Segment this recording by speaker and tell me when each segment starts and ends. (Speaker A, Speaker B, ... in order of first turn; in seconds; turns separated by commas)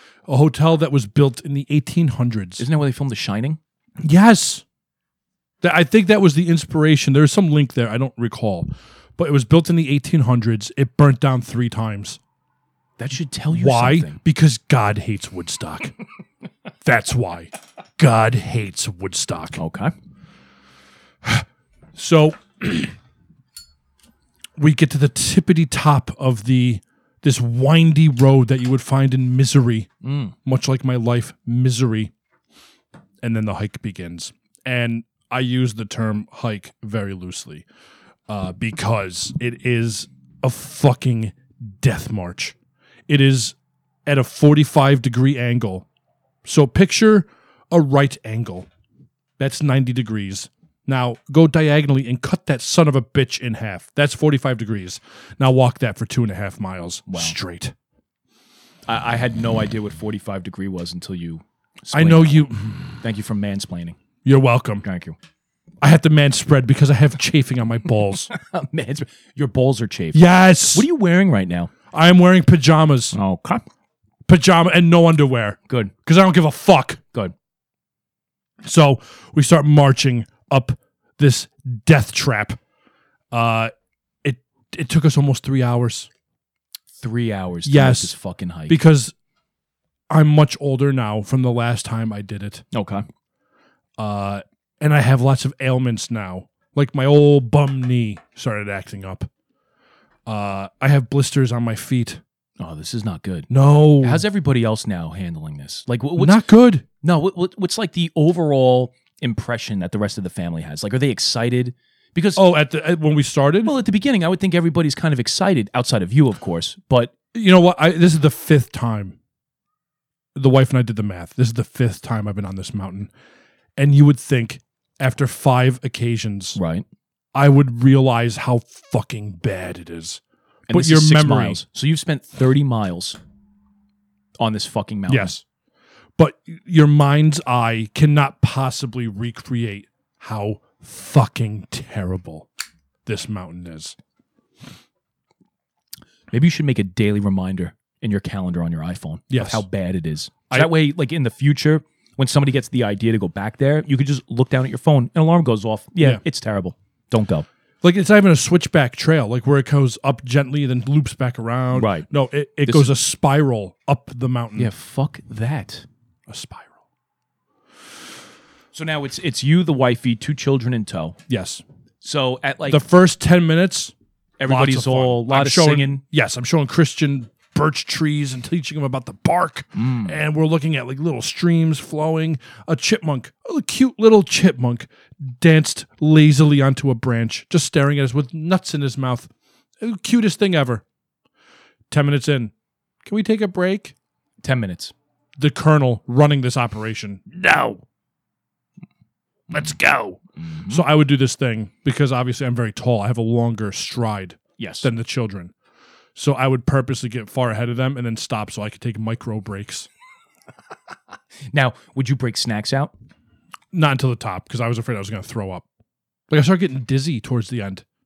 Speaker A: 0.3-2.6, Speaker B: 2.6-3.6, Speaker A: 4.0-4.6, Speaker A: 5.6-12.2, Speaker B: 13.0-14.2, Speaker A: 13.5-15.9, Speaker A: 16.8-19.6, Speaker B: 19.6-19.9, Speaker A: 21.2-22.9, Speaker A: 24.6-29.9, Speaker B: 30.0-30.4, Speaker A: 30.4-32.1, Speaker A: 33.2-37.7, Speaker A: 38.3-42.5, Speaker A: 43.1-45.9, Speaker A: 46.5-48.7, Speaker A: 49.4-57.7, Speaker B: 57.1-57.4, Speaker B: 58.9-62.5, Speaker A: 61.9-63.0, Speaker B: 63.0-64.0, Speaker A: 64.2-64.8, Speaker B: 64.8-65.2, Speaker A: 65.8-68.3, Speaker B: 68.3-71.7, Speaker A: 70.1-70.9, Speaker A: 71.9-73.2, Speaker B: 73.1-73.6, Speaker A: 74.3-77.0, Speaker A: 78.6-82.6, Speaker A: 83.3-83.7, Speaker A: 84.2-86.1, Speaker B: 87.0-88.8, Speaker A: 87.7-88.1, Speaker A: 88.7-89.1, Speaker A: 90.1-92.7, Speaker B: 92.7-93.0, Speaker A: 94.0-99.3, Speaker A: 100.3-102.2, Speaker B: 102.6-106.4, Speaker A: 103.5-104.2, Speaker A: 106.2-106.8, Speaker B: 107.0-112.4, Speaker A: 112.4-113.7, Speaker B: 113.6-117.1, Speaker A: 117.3-119.2, Speaker A: 120.3-123.1, Speaker A: 123.8-126.6, Speaker B: 126.6-126.8, Speaker A: 127.3-131.6, Speaker B: 130.7-133.2, Speaker B: 134.4-135.4, Speaker A: 135.1-135.4, Speaker A: 136.2-142.5, Speaker A: 143.1-144.0, Speaker B: 146.3-157.5, Speaker A: 149.3-149.7, Speaker A: 157.8-164.7, Speaker B: 161.7-162.1, Speaker B: 162.7-162.9, Speaker B: 164.6-165.9, Speaker A: 166.3-166.8, Speaker B: 168.7-171.2, Speaker A: 171.3-171.6, Speaker B: 172.0-172.8, Speaker A: 172.7-173.9, Speaker B: 174.4-176.0, Speaker A: 174.5-189.3, Speaker B: 179.8-180.2, Speaker A: 189.8-190.8, Speaker A: 191.9-192.5, Speaker A: 193.0-193.9, Speaker B: 194.4-194.9, Speaker A: 195.4-197.8, Speaker A: 199.5-205.5, Speaker B: 200.4-200.8, Speaker B: 204.6-204.9, Speaker A: 206.2-209.9, Speaker B: 211.5-212.9, Speaker A: 213.7-215.7, Speaker A: 216.3-217.8